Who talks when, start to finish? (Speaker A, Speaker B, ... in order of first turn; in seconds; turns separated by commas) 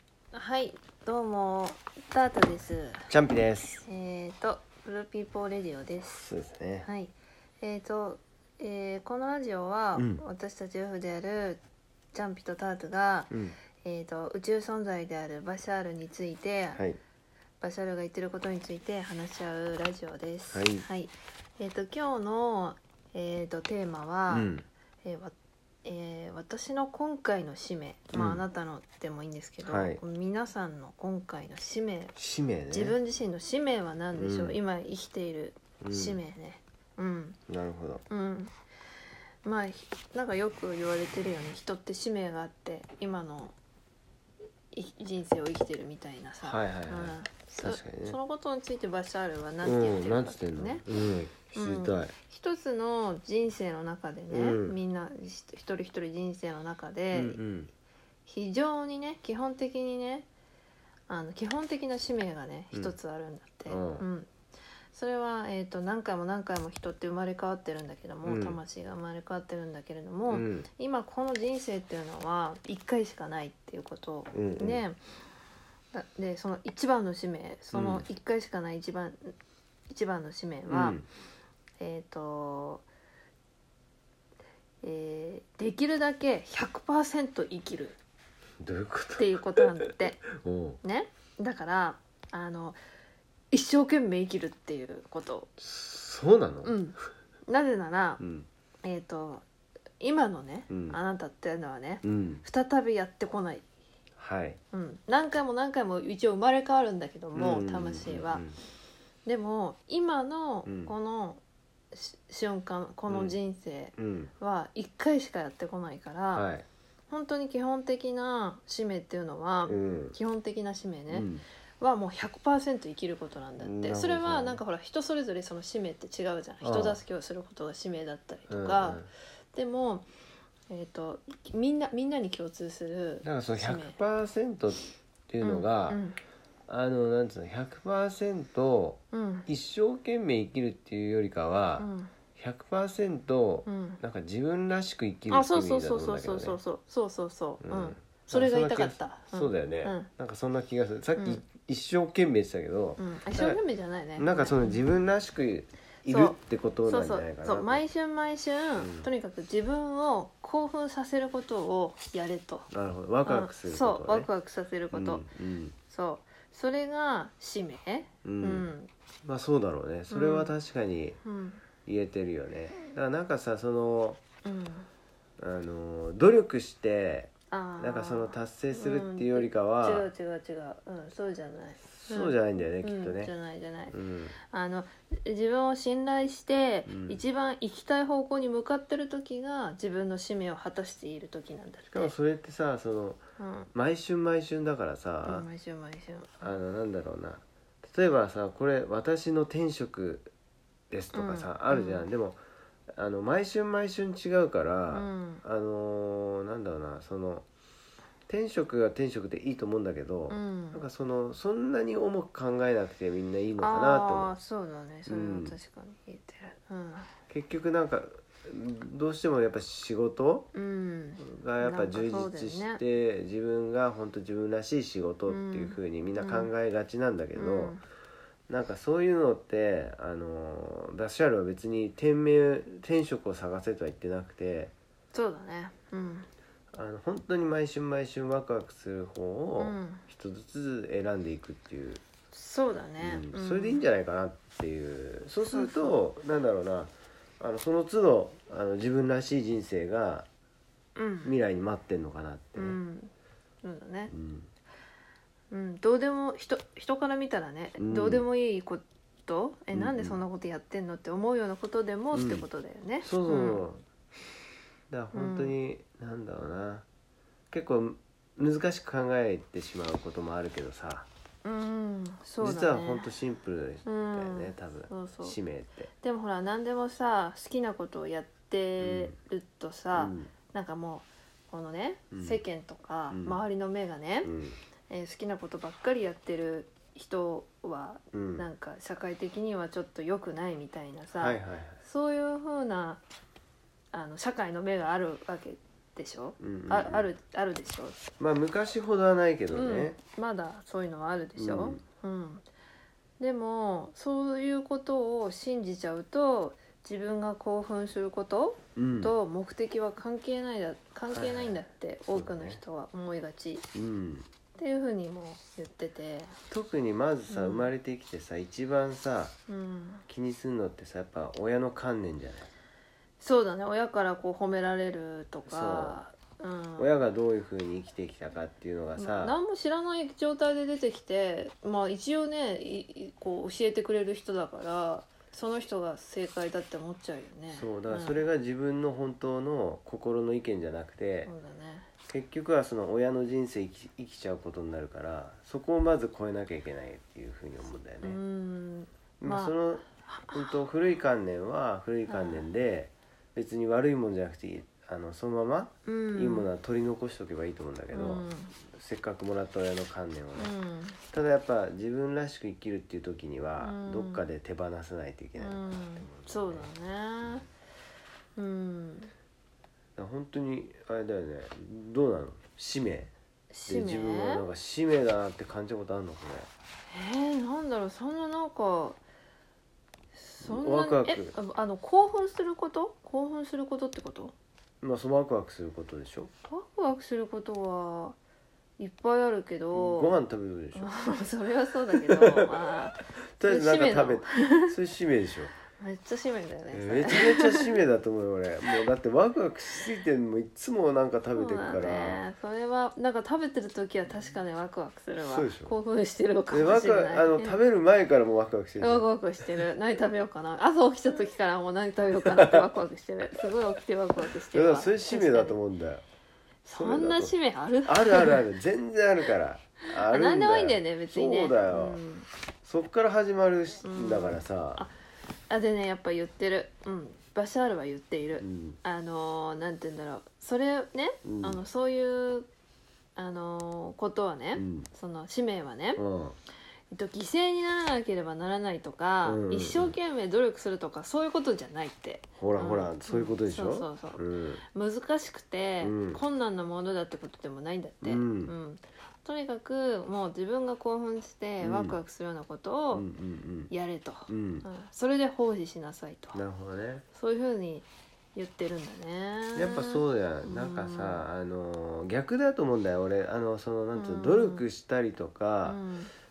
Speaker A: 0.3-3.1, Speaker B: 3.1-3.8, Speaker A: 3.8-6.3, Speaker B: 6.2-6.9, Speaker A: 6.8-11.6, Speaker B: 9.9-10.2, Speaker A: 12.1-16.8, Speaker B: 13.3-13.6, Speaker A: 17.6-24.5, Speaker B: 20.5-20.9, Speaker B: 24.3-24.6, Speaker A: 25.0-32.1, Speaker B: 28.1-28.4, Speaker B: 29.6-30.0, Speaker B: 32.1-33.0, Speaker A: 32.7-37.4, Speaker B: 34.1-34.6, Speaker B: 35.8-36.2, Speaker B: 37.5-38.0, Speaker A: 38.1-38.5, Speaker A: 39.4-43.5, Speaker A: 44.7-50.8, Speaker B: 46.4-48.2, Speaker B: 49.6-52.1, Speaker A: 51.5-57.4, Speaker B: 54.3-54.8, Speaker B: 57.1-57.7, Speaker A: 58.2-60.3, Speaker A: 61.1-64.3, Speaker B: 63.7-64.0, Speaker A: 64.9-75.0, Speaker B: 68.2-68.6, Speaker B: 70.3-70.7, Speaker B: 74.3-74.8, Speaker A: 75.9-79.3, Speaker B: 77.7-78.0, Speaker A: 79.9-81.0, Speaker B: 80.7-81.0, Speaker A: 81.8-82.8, Speaker A: 84.8-88.0, Speaker B: 88.6-90.8, Speaker A: 89.2-90.2, Speaker A: 90.8-92.8, Speaker A: 93.5-95.5, Speaker B: 95.6-96.8, Speaker A: 96.6-98.2, Speaker B: 98.2-98.5, Speaker A: 98.8-99.4, Speaker A: 100.0-103.7, Speaker B: 100.7-101.0, Speaker B: 102.0-102.4, Speaker B: 104.2-104.6, Speaker A: 104.7-108.4, Speaker B: 107.3-108.6, Speaker A: 109.2-116.5, Speaker B: 110.7-110.9, Speaker B: 113.1-113.4, Speaker B: 114.0-114.3, Speaker B: 116.3-116.6, Speaker A: 117.1-121.3, Speaker B: 119.7-120.2, Speaker B: 121.1-121.4, Speaker A: 121.8-130.1, Speaker B: 123.6-124.6, Speaker B: 126.6-127.0, Speaker B: 128.5-129.1, Speaker A: 130.7-134.0, Speaker B: 133.2-136.0, Speaker A: 135.4-136.2, Speaker B: 136.7-146.6, Speaker A: 139.1-139.5, Speaker A: 141.8-142.1, Speaker A: 143.7-144.0, Speaker A: 145.3-150.1, Speaker B: 147.6-153.6, Speaker A: 151.2-151.4, Speaker A: 153.0-154.9, Speaker B: 154.2-157.8, Speaker A: 156.1-162.7, Speaker B: 158.8-159.1, Speaker B: 162.7-164.3, Speaker A: 163.2-165.3, Speaker B: 164.9-165.8, Speaker A: 165.9-168.9, Speaker B: 168.2-168.7, Speaker B: 169.2-171.2, Speaker A: 170.1-170.5, Speaker A: 171.2-171.6, Speaker B: 171.8-174.2, Speaker A: 174.4-174.9, Speaker B: 175.4-180.1, Speaker A: 177.5-192.1, Speaker B: 181.9-183.3, Speaker B: 183.9-184.3, Speaker B: 186.8-187.2, Speaker B: 191.9-193.2, Speaker A: 193.4-193.7, Speaker B: 193.7-195.5, Speaker A: 195.2-196.6, Speaker B: 196.4-200.3, Speaker B: 200.9-202.4, Speaker A: 201.1-202.1, Speaker B: 202.9-207.4, Speaker A: 204.9-205.4, Speaker B: 208.3-214.3, Speaker A: 210.3-210.8, Speaker A: 213.6-217.1, Speaker B: 215.1-215.6, Speaker B: 217.3-220.5, Speaker A: 220.5-222.8, Speaker B: 221.2-227.8, Speaker A: 225.3-226.5, Speaker A: 227.3-227.8, Speaker B: 228.5-234.7, Speaker A: 235.1-236.3, Speaker B: 236.7-242.0, Speaker A: 239.6-240.0, Speaker A: 242.3-243.8, Speaker B: 243.0-250.2, Speaker A: 245.5-246.0, Speaker A: 250.9-251.3, Speaker B: 251.2-252.8, Speaker A: 252.6-253.1, Speaker A: 253.6-254.1, Speaker B: 254.1-254.5, Speaker A: 255.5-263.6, Speaker B: 257.8-258.2, Speaker B: 259.7-260.2, Speaker B: 262.1-262.5, Speaker B: 263.0-263.8, Speaker B: 264.9-266.9, Speaker A: 265.1-265.6, Speaker B: 267.5-271.1, Speaker A: 271.4-273.1, Speaker B: 272.4-275.9, Speaker A: 273.8-275.4, Speaker A: 275.9-284.3, Speaker B: 278.8-279.1, Speaker B: 279.9-280.3, Speaker B: 282.1-282.4, Speaker B: 283.1-283.4, Speaker B: 284.2-284.6, Speaker A: 284.9-293.0, Speaker B: 288.1-288.4, Speaker B: 291.1-291.8, Speaker A: 293.9-298.0, Speaker B: 296.4-297.1, Speaker B: 298.2-300.0, Speaker A: 299.5-302.4, Speaker B: 301.4-301.8, Speaker A: 303.2-313.7, Speaker B: 308.8-309.1, Speaker B: 311.1-311.6, Speaker B: 312.1-312.6, Speaker B: 313.7-314.3, Speaker A: 314.5-316.4, Speaker B: 316.5-319.4, Speaker A: 317.3-317.7, Speaker A: 319.5-320.0, Speaker B: 320.1-322.5, Speaker A: 323.2-326.9, Speaker B: 325.5-326.0, Speaker B: 326.8-329.4, Speaker A: 329.0-338.2, Speaker B: 337.5-341.3, Speaker A: 341.2-341.9, Speaker B: 342.1-348.2, Speaker A: 348.0-350.6, Speaker B: 349.2-360.5, Speaker A: 352.1-352.5, Speaker A: 355.8-356.5, Speaker A: 357.9-358.5, Speaker A: 360.4-361.0, Speaker B: 361.1-366.7, Speaker A: 363.6-364.3, Speaker A: 365.4-367.4, Speaker A: 368.4-369.1, Speaker B: 370.0-373.1, Speaker A: 373.5-374.4, Speaker B: 373.6-376.5, Speaker A: 376.9-379.0, Speaker A: 380.1-384.3, Speaker B: 380.4-381.3, Speaker B: 384.8-386.3, Speaker A: 386.4-388.2, Speaker A: 388.8-390.1, Speaker B: 389.7-390.9, Speaker A: 390.7-394.7, Speaker B: 392.0-392.6, Speaker B: 393.4-395.5, Speaker A: 395.7-397.7, Speaker B: 396.7-402.2, Speaker A: 401.3-407.6, Speaker B: 405.2-405.7, Speaker B: 406.5-409.1, Speaker A: 408.8-415.6, Speaker B: 412.2-412.7, Speaker B: 414.5-416.0, Speaker A: 416.6-418.4, Speaker B: 416.7-422.0, Speaker A: 420.1-422.3, Speaker B: 422.6-424.9, Speaker A: 423.8-424.9, Speaker A: 425.5-432.5, Speaker B: 428.4-428.8, Speaker B: 431.2-431.6, Speaker A: 433.1-436.0, Speaker B: 434.5-434.9, Speaker B: 435.9-436.4, Speaker A: 436.9-453.1, Speaker B: 439.2-439.9, Speaker B: 442.4-444.6, Speaker B: 445.8-446.2, Speaker B: 448.0-448.5, Speaker B: 451.6-452.0, Speaker B: 452.9-453.7, Speaker A: 453.7-456.4, Speaker B: 454.3-454.7, Speaker B: 456.3-457.0, Speaker A: 457.1-461.3, Speaker B: 459.5-465.8, Speaker A: 463.9-464.6, Speaker A: 465.6-466.1